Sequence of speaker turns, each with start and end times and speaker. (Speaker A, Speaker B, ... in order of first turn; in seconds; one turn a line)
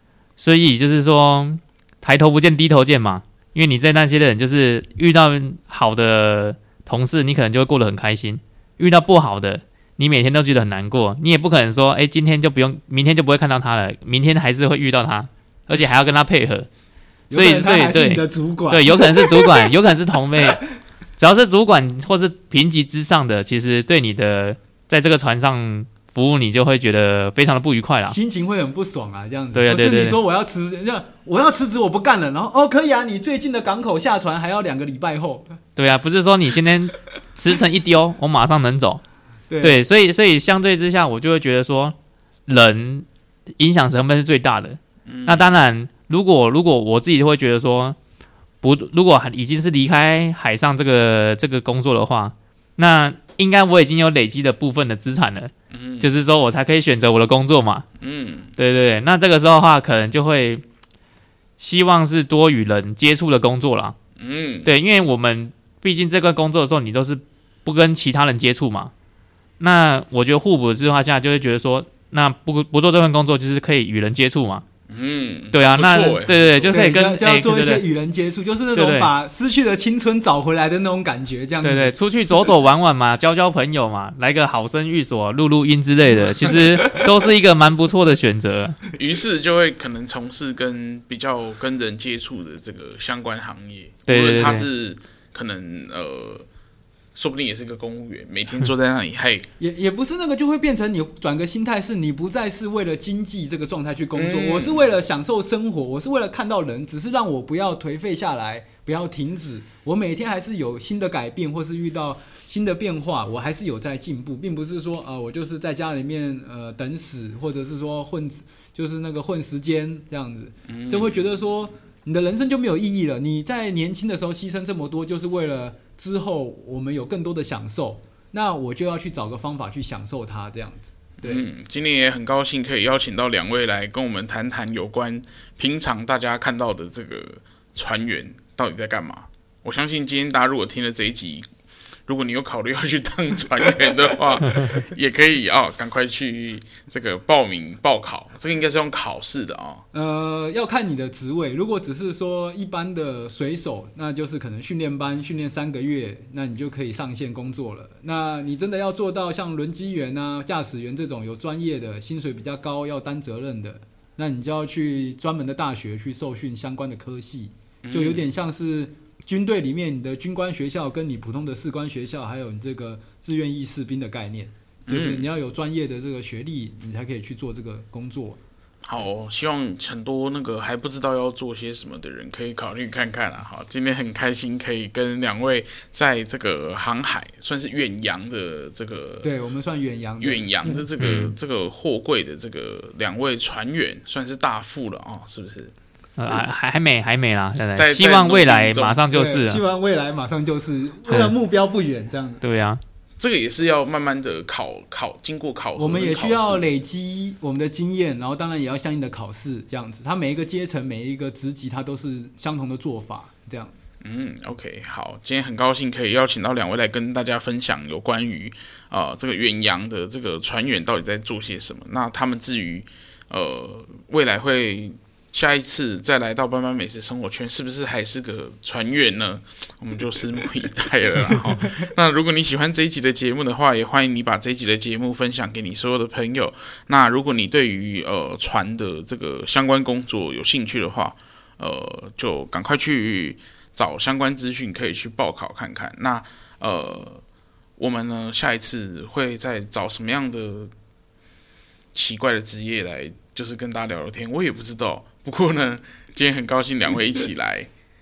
Speaker A: 0.4-16.7
Speaker B: 17.3-19.7
Speaker A: 17.3-20.6
Speaker A: 21.2-28.2
Speaker B: 28.1-35.6
Speaker A: 29.5-30.2
Speaker A: 35.8-39.0
Speaker B: 39.5-39.8
Speaker A: 39.6-42.0
Speaker A: 42.5-43.1
Speaker A: 43.6-48.0
Speaker C: 45.0-45.5
Speaker A: 48.6-57.9
Speaker C: 55.7-56.1
Speaker C: 58.0-58.5
Speaker A: 58.6-60.6
Speaker A: 61.6-64.0
Speaker C: 64.2-64.7
Speaker A: 64.6-68.9
Speaker A: 69.6-74.6
Speaker C: 74.9-76.8
Speaker A: 75.5-77.8
Speaker B: 76.7-81.9
Speaker A: 78.7-79.1
Speaker A: 81.6-88.8
Speaker B: 86.5-87.0
Speaker C: 88.9-96.5
Speaker A: 94.1-94.7
Speaker C: 97.1-99.5
Speaker B: 99.6-131.5
Speaker C: 104.1-104.8
Speaker C: 120.7-121.2
Speaker C: 131.2-141.4
Speaker C: 142.1-149.8
Speaker B: 149.9-178.4
Speaker C: 167.8-168.2
Speaker C: 174.9-175.2
Speaker C: 178.8-189.3
Speaker B: 189.2-190.8
Speaker C: 190.2-195.7
Speaker A: 191.0-191.3
Speaker A: 196.2-199.6
Speaker C: 197.8-199.0
Speaker B: 199.1-202.4
Speaker A: 201.1-201.3
Speaker A: 202.4-202.8
Speaker C: 203.2-206.7
Speaker B: 205.8-213.7
Speaker C: 214.0-247.2
Speaker C: 247.8-250.7
Speaker C: 251.9-257.7